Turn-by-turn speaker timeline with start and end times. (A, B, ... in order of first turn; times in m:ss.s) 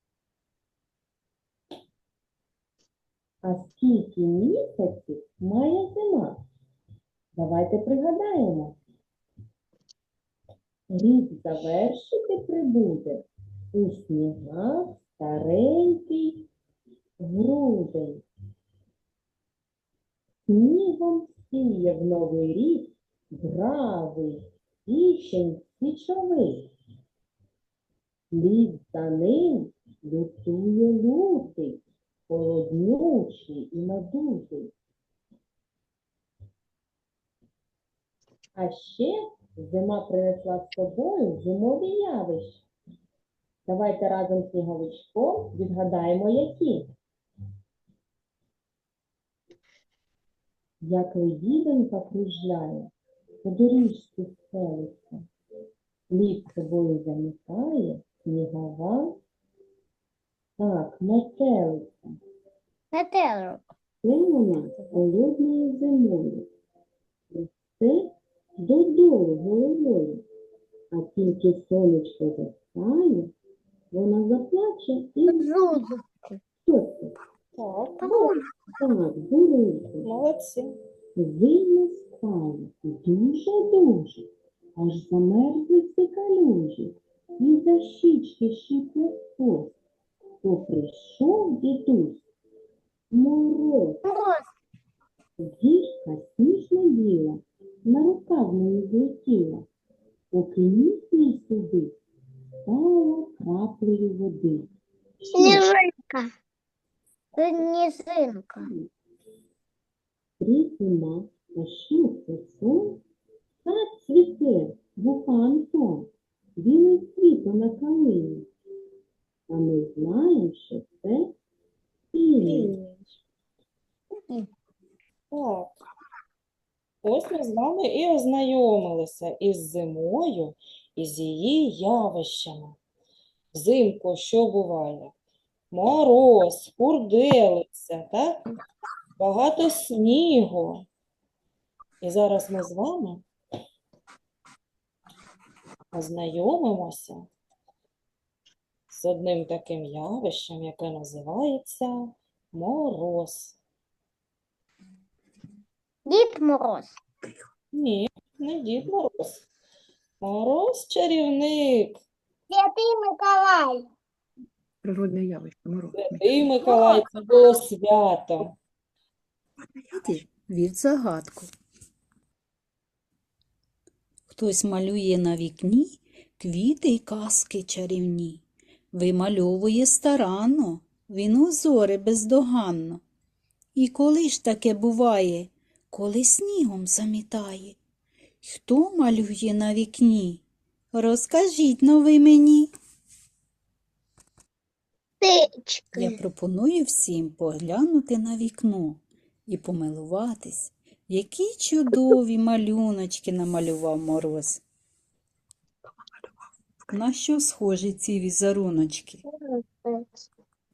0:03.4-0:06.4 A
0:07.3-0:08.8 A
0:10.9-0:16.5 A
0:17.2-0:18.2 A
0:20.5-0:26.7 A
0:28.3-0:34.7 A
0:38.6-0:42.7 A
0:43.7-0:46.9 A
0:50.8-0:52.9 A
0:53.4-0:55.3 A
0:56.1-0:59.2 A
1:00.6-1:02.2 A
1:02.9-1:03.6 B
1:04.0-1:06.5 A
1:07.3-1:10.2 A
1:10.9-1:13.3 A
1:13.9-1:15.5 A
1:15.3-1:16.4 B
1:16.7-1:17.2 A
1:17.6-1:18.4 C
1:18.0-1:18.4 B
1:18.8-1:20.1 A
1:20.0-1:20.8 C
1:21.2-1:29.7 A
1:30.4-1:32.2 A
1:33.1-1:34.0 A
1:34.0-1:34.5 B
1:35.4-1:39.7 A
1:40.3-1:42.0 A
1:42.6-1:44.7 A
1:45.3-1:46.3 B
1:45.4-1:45.6 A
1:47.4-1:48.7 B
1:50.4-1:53.0 A
1:53.6-1:58.5 A
1:59.5-2:01.3 A
2:02.1-2:02.7 A
2:02.4-2:03.1 C
2:05.3-2:05.8 C
2:07.0-2:12.8 C
2:13.5-2:15.1 C
2:15.7-2:18.4 C
2:19.2-2:20.8 C
2:22.0-2:23.2 C
2:25.9-2:27.3 C
2:28.9-2:33.6 C
2:36.1-2:36.9 B
2:37.2-2:37.5 D
2:37.7-2:39.4 C
2:40.2-2:42.0 C
2:42.5-2:43.9 B
2:44.8-2:46.6 D
2:46.0-2:48.5 C
2:46.7-2:47.1 B
2:49.6-2:50.2 D
2:50.0-2:51.5 E
2:54.3-2:58.4 E
2:58.9-3:03.0 E
3:03.8-3:07.8 E
3:08.4-3:10.4 E
3:10.9-3:12.7 E
3:15.2-3:16.2 B
3:15.9-3:24.6 E
3:25.8-3:27.0 D
3:26.9-3:29.2 E
3:29.3-3:30.1 B